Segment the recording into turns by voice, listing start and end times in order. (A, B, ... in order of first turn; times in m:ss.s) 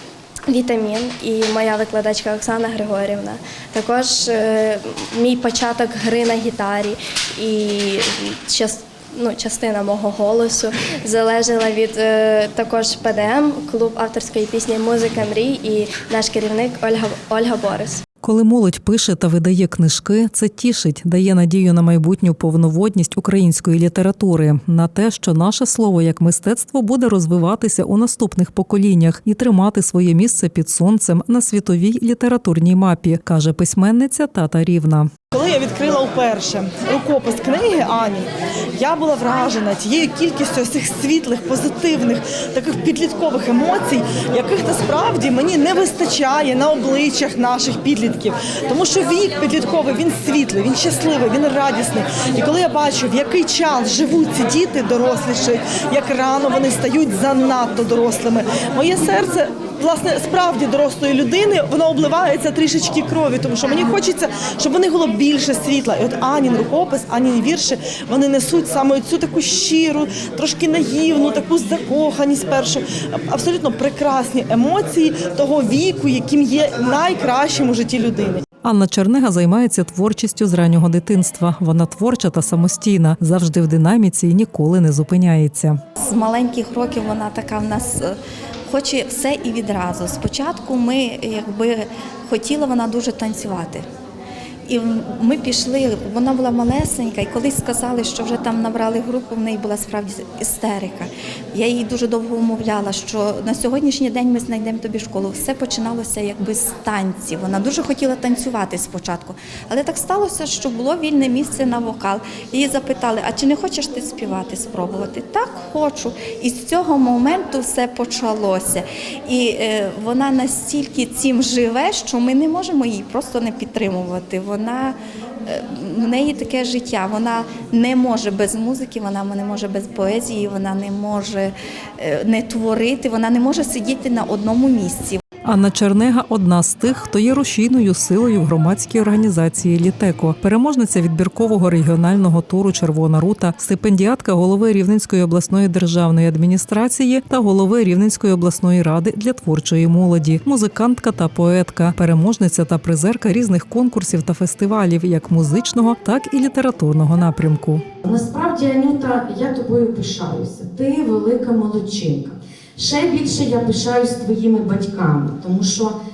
0:00.5-0:18.0 A
0:18.2-0:35.1 B
0:35.3-1:18.4 C
1:18.6-1:25.8 B
1:26.0-1:33.8 D
1:34.7-2:15.2 D
2:15.4-2:37.8 B
2:38.0-2:46.0 E